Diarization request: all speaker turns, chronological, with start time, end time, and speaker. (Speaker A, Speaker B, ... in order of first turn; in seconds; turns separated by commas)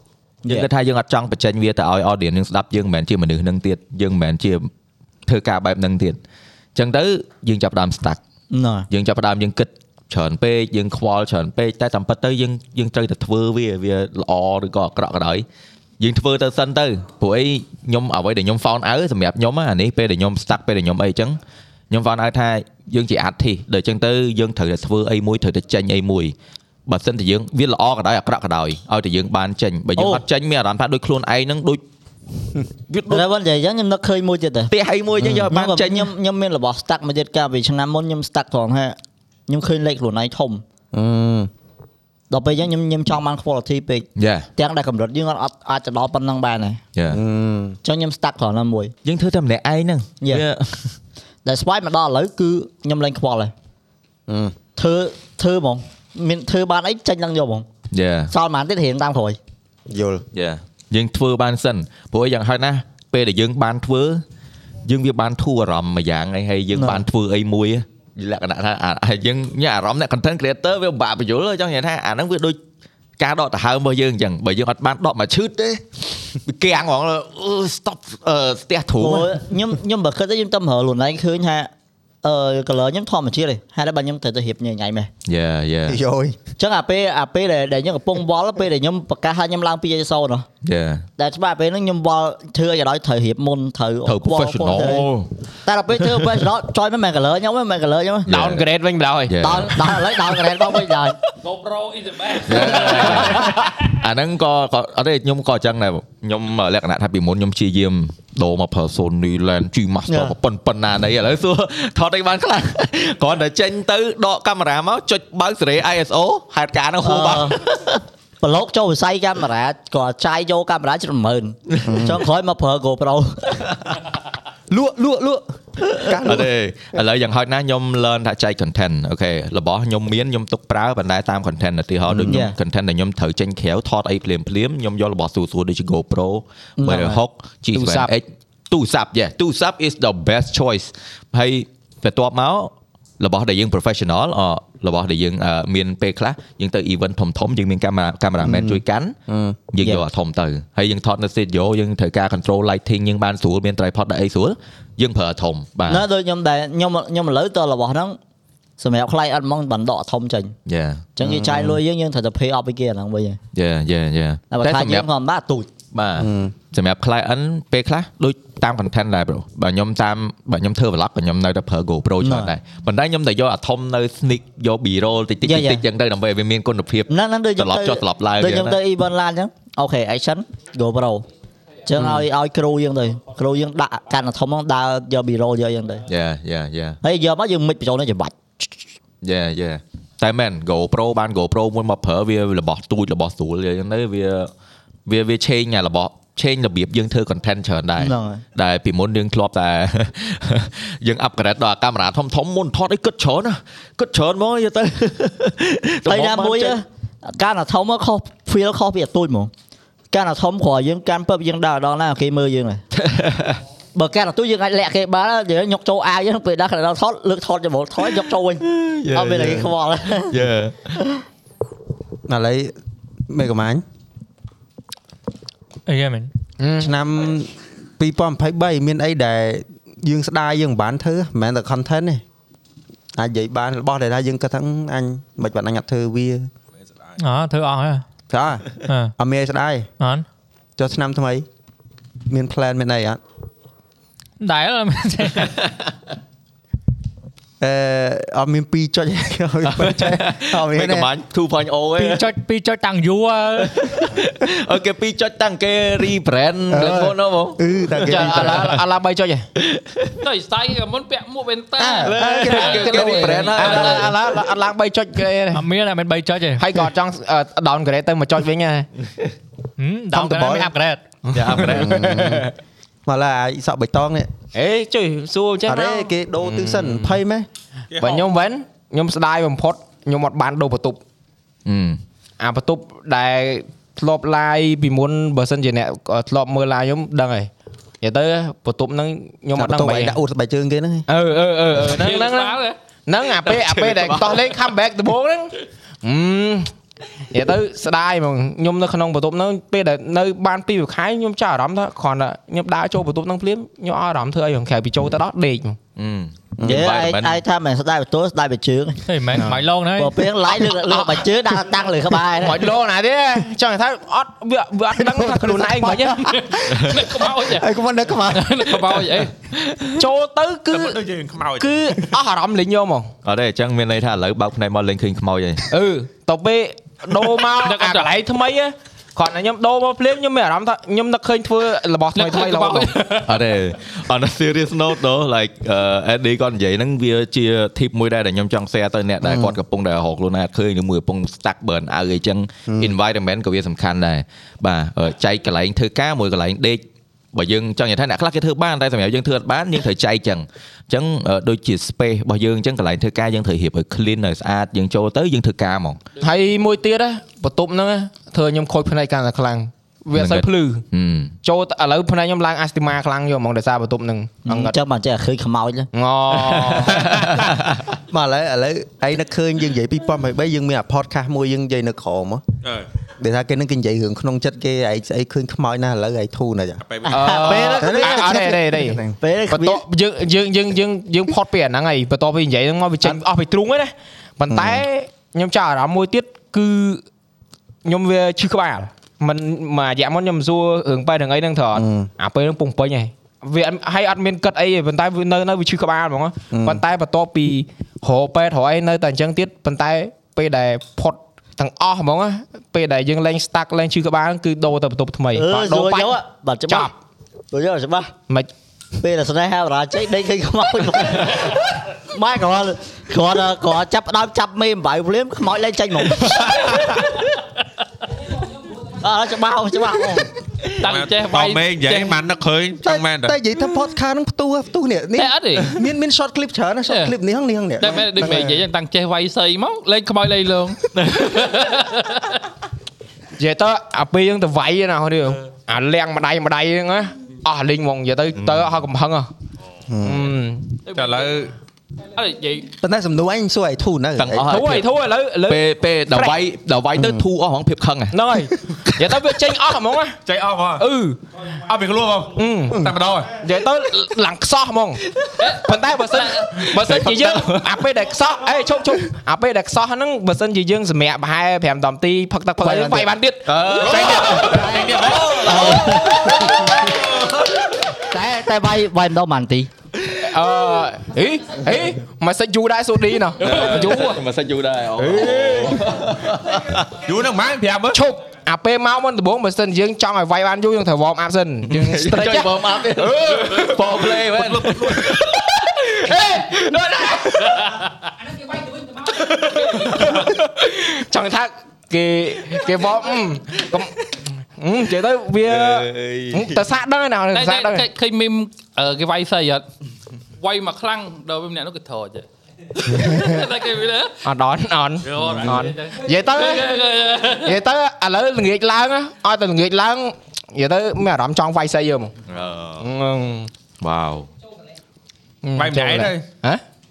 Speaker A: 0.4-0.7, Speaker B: 0.5-4.7, Speaker B: 5.3-6.2, Speaker B: 6.8-8.2, Speaker A: 8.5-8.9, Speaker B: 8.9-15.5, Speaker B: 16.0-26.4, Speaker B: 26.9-31.8, Speaker A: 30.0-30.2, Speaker B: 32.9-33.2, Speaker A: 33.1-34.7, Speaker B: 34.7-36.1, Speaker C: 35.2-35.5, Speaker A: 35.5-39.0, Speaker A: 39.5-40.6, Speaker C: 40.9-41.5, Speaker A: 42.3-46.8, Speaker B: 44.2-44.5, Speaker B: 47.0-47.2, Speaker C: 47.1-47.8, Speaker A: 47.8-48.9, Speaker B: 49.0-50.9, Speaker A: 51.5-53.5, Speaker C: 54.3-54.6, Speaker A: 54.8-57.7, Speaker B: 57.9-58.3, Speaker A: 58.3-59.4, Speaker C: 59.9-60.2, Speaker B: 60.3-64.2, Speaker B: 64.9-72.6, Speaker B: 73.2-79.5, Speaker A: 79.0-81.7, Speaker A: 82.2-85.1, Speaker B: 85.3-86.0, Speaker C: 85.9-86.4, Speaker A: 86.6-90.5, Speaker B: 90.6-91.1, Speaker A: 91.2-95.1, Speaker B: 94.0-95.3, Speaker A: 95.7-98.3, Speaker B: 96.0-96.3, Speaker B: 98.3-98.7, Speaker D: 98.3-99.4, Speaker B: 99.3-100.4, Speaker A: 99.4-101.2, Speaker E: 101.4-103.7, Speaker B: 102.5-118.0, Speaker A: 110.1-110.3, Speaker A: 117.0-117.6, Speaker A: 118.4-123.6, Speaker B: 121.7-122.1, Speaker C: 121.8-122.2, Speaker C: 124.7-126.5, Speaker B: 126.2-149.2, Speaker C: 132.1-132.4, Speaker A: 132.3-132.6, Speaker A: 136.8-137.2, Speaker D: 137.7-138.1, Speaker C: 148.4-149.6, Speaker B: 149.7-156.1, Speaker A: 155.9-158.2, Speaker A: 158.8-160.6, Speaker B: 160.7-161.7, Speaker A: 161.2-163.4, Speaker B: 163.5-165.1, Speaker A: 164.5-165.7, Speaker B: 165.9-178.8, Speaker C: 166.2-166.6, Speaker A: 172.2-172.5, Speaker A: 175.4-175.8, Speaker A: 177.1-181.3, Speaker A: 181.9-186.1, Speaker B: 182.0-182.2, Speaker B: 186.1-187.0, Speaker A: 187.0-188.7, Speaker B: 189.2-194.5, Speaker B: 195.1-206.8, Speaker A: 198.0-198.4, Speaker A: 206.1-209.5, Speaker A: 210.1-212.8, Speaker B: 212.9-213.6, Speaker A: 213.9-220.4, Speaker B: 218.6-219.7, Speaker B: 220.3-220.9, Speaker C: 222.3-222.7, Speaker C: 223.3-223.8, Speaker F: 225.9-226.3, Speaker D: 226.6-226.9, Speaker C: 226.8-232.2, Speaker C: 233.2-236.5, Speaker G: 236.8-237.2, Speaker F: 237.2-238.0, Speaker C: 238.3-239.9, Speaker F: 238.8-239.1, Speaker F: 240.0-240.3, Speaker C: 240.8-241.5, Speaker C: 242.3-243.2, Speaker F: 244.4-245.6, Speaker C: 247.6-251.1, Speaker B: 249.7-252.3, Speaker F: 252.0-253.8, Speaker B: 253.6-257.6, Speaker C: 256.7-258.7, Speaker D: 258.0-259.4, Speaker B: 258.2-258.8, Speaker B: 259.6-260.2, Speaker E: 260.2-264.1, Speaker C: 261.8-263.5, Speaker B: 262.0-264.3, Speaker D: 262.6-265.6, Speaker F: 265.5-266.6, Speaker D: 266.6-268.9, Speaker F: 269.8-271.0, Speaker C: 270.1-270.7, Speaker D: 271.3-272.5, Speaker B: 271.3-271.9, Speaker C: 271.6-272.5, Speaker C: 273.1-274.3, Speaker D: 274.5-277.2, Speaker C: 275.7-277.5, Speaker G: 277.9-278.3, Speaker D: 278.0-281.0, Speaker B: 281.7-282.0, Speaker D: 282.4-287.5, Speaker D: 288.0-290.2, Speaker C: 289.6-291.1, Speaker D: 291.1-296.7, Speaker E: 291.8-292.8, Speaker B: 293.4-294.6, Speaker D: 297.3-305.8, Speaker B: 306.0-307.4, Speaker A: 306.6-309.0, Speaker F: 309.1-310.2, Speaker A: 310.0-312.7, Speaker D: 310.9-311.2, Speaker D: 312.4-316.2, Speaker C: 314.9-319.1, Speaker E: 316.4-317.7, Speaker B: 316.7-317.0, Speaker E: 318.2-319.3, Speaker B: 319.5-320.0, Speaker D: 320.0-321.0, Speaker G: 320.7-322.1, Speaker D: 321.6-323.1, Speaker B: 323.2-325.7, Speaker D: 325.7-332.9, Speaker E: 327.6-328.1, Speaker E: 332.1-333.4, Speaker B: 333.2-346.8, Speaker C: 339.2-339.6, Speaker C: 342.7-342.9, Speaker B: 347.3-356.0, Speaker D: 356.2-360.8, Speaker B: 360.1-361.4, Speaker D: 361.4-364.7, Speaker A: 364.4-365.9, Speaker D: 365.9-367.4, Speaker B: 366.5-367.8, Speaker C: 368.1-372.4, Speaker G: 372.6-372.9, Speaker C: 373.2-376.8, Speaker G: 376.8-377.7, Speaker D: 377.1-387.0, Speaker A: 377.1-378.3, Speaker C: 377.5-379.2, Speaker A: 379.2-379.8, Speaker C: 384.5-384.8, Speaker D: 387.9-406.2, Speaker C: 391.8-392.1, Speaker C: 396.5-396.8, Speaker A: 405.3-406.9, Speaker A: 407.5-408.1, Speaker A: 409.0-416.7, Speaker A: 419.0-420.3, Speaker E: 420.8-422.2, Speaker G: 420.8-423.4, Speaker C: 422.8-428.6, Speaker E: 425.2-425.8, Speaker E: 426.9-427.1, Speaker E: 427.8-432.4, Speaker B: 431.0-431.4, Speaker D: 433.4-439.3, Speaker B: 438.4-438.7, Speaker C: 439.9-440.4, Speaker D: 440.0-440.8, Speaker E: 440.9-441.4, Speaker G: 440.9-441.5, Speaker E: 442.1-442.7, Speaker C: 442.8-444.6, Speaker B: 444.2-444.9, Speaker D: 444.5-446.3, Speaker B: 445.4-448.2, Speaker C: 447.0-447.2, Speaker D: 448.1-450.2, Speaker G: 450.3-450.8, Speaker D: 450.8-451.2, Speaker G: 451.6-453.3, Speaker D: 452.4-452.8, Speaker D: 453.4-455.0, Speaker E: 455.4-456.6, Speaker D: 455.6-464.4, Speaker B: 456.7-457.7, Speaker A: 462.6-463.1, Speaker B: 463.5-467.7, Speaker G: 463.9-465.6, Speaker A: 464.4-466.7, Speaker A: 468.1-469.7, Speaker D: 470.2-474.2, Speaker B: 473.4-476.9, Speaker D: 475.0-475.8, Speaker G: 477.0-478.0, Speaker D: 477.9-483.8, Speaker B: 481.7-485.5, Speaker G: 484.4-485.1, Speaker D: 485.7-487.4, Speaker B: 486.6-487.1, Speaker E: 487.5-488.1, Speaker E: 489.6-490.1, Speaker D: 489.9-494.0, Speaker D: 494.6-497.9, Speaker B: 495.5-496.6, Speaker E: 497.3-499.7, Speaker E: 500.4-502.3, Speaker E: 502.8-504.2, Speaker D: 504.2-506.7, Speaker G: 505.1-505.5, Speaker E: 505.1-507.6, Speaker D: 507.4-512.1, Speaker B: 512.3-512.9, Speaker D: 512.8-513.5, Speaker B: 513.8-514.3, Speaker D: 515.4-516.6, Speaker G: 515.6-516.2